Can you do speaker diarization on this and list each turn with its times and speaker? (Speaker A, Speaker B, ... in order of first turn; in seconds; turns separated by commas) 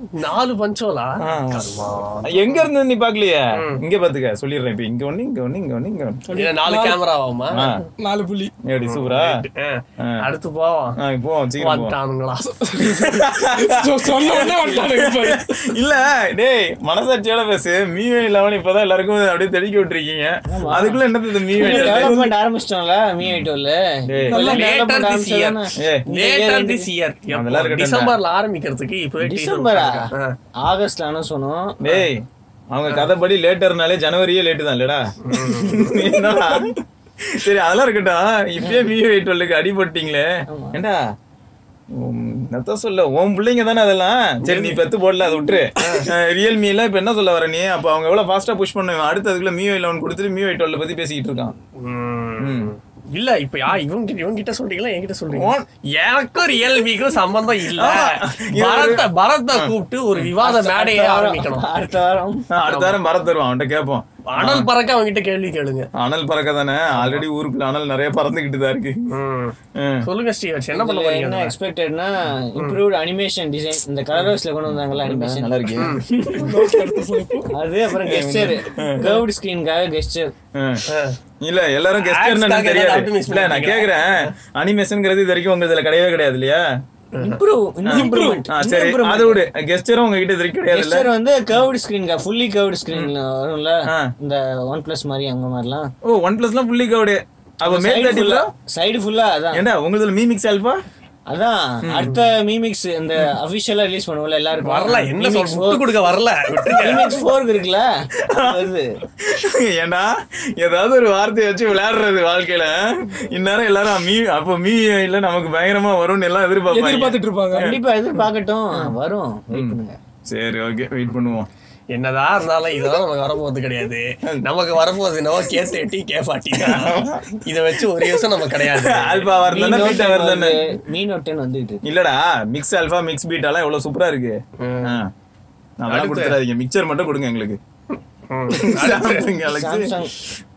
Speaker A: 0.1-2.7, Speaker B: 1.2-1.7, Speaker B: 2.3-6.2, Speaker A: 3.5-3.8, Speaker C: 6.3-7.0, Speaker A: 6.3-7.8, Speaker B: 7.5-7.8, Speaker C: 8.0-8.5, Speaker B: 8.7-9.3, Speaker A: 8.8-10.9, Speaker B: 11.0-11.9, Speaker A: 11.6-12.4, Speaker C: 12.4-15.4, Speaker B: 13.0-13.3, Speaker B: 14.1-22.1, Speaker D: 20.5-21.0, Speaker D: 21.5-26.9, Speaker C: 21.6-22.3, Speaker B: 23.2-23.5, Speaker B: 24.1-24.5, Speaker C: 24.3-24.7, Speaker A: 24.3-30.3, Speaker B: 25.8-26.1, Speaker B: 27.3-28.1, Speaker D: 29.2-30.1, Speaker D: 30.6-31.8, Speaker B: 31.8-32.2, Speaker B: 32.7-41.0, Speaker A: 35.3-36.1, Speaker D: 38.6-38.9, Speaker D: 40.5-40.8, Speaker B: 42.0-51.5, Speaker A: 44.4-44.8, Speaker A: 45.8-46.1, Speaker A: 51.8-61.7, Speaker B: 52.4-52.7, Speaker B: 55.3-55.6, Speaker B: 57.8-59.7, Speaker D: 60.4-62.5, Speaker B: 62.5-64.7, Speaker A: 62.7-63.0, Speaker A: 64.3-65.9, Speaker B: 66.0-69.0, Speaker A: 67.0-67.2, Speaker A: 69.1-71.5, Speaker B: 69.8-70.0, Speaker D: 70.7-75.8, Speaker A: 72.5-72.8, Speaker B: 74.9-76.9, Speaker A: 75.8-76.0, Speaker C: 76.4-77.5, Speaker D: 77.5-80.3, Speaker B: 78.0-79.1, Speaker B: 80.6-80.8, Speaker A: 80.9-81.2, Speaker B: 81.4-86.6, Speaker A: 82.0-84.3, Speaker A: 87.1-87.4, Speaker D: 87.2-89.4, Speaker B: 87.8-91.1, Speaker C: 87.9-88.4, Speaker D: 90.7-95.9, Speaker B: 96.0-98.5, Speaker D: 97.6-99.7, Speaker B: 99.5-100.8, Speaker D: 101.3-105.8, Speaker B: 101.8-102.1, Speaker A: 104.6-107.1, Speaker D: 106.8-108.9, Speaker B: 108.3-108.7, Speaker B: 109.2-117.8, Speaker C: 116.7-117.7, Speaker D: 117.5-120.0, Speaker B: 119.5-121.5, Speaker A: 121.9-129.3, Speaker B: 126.5-127.4, Speaker B: 128.1-130.6, Speaker D: 129.5-131.8, Speaker B: 131.8-135.1, Speaker A: 134.6-135.0, Speaker B: 135.8-137.6, Speaker A: 135.9-136.4, Speaker A: 138.3-139.3, Speaker B: 138.5-139.9, Speaker D: 139.4-140.1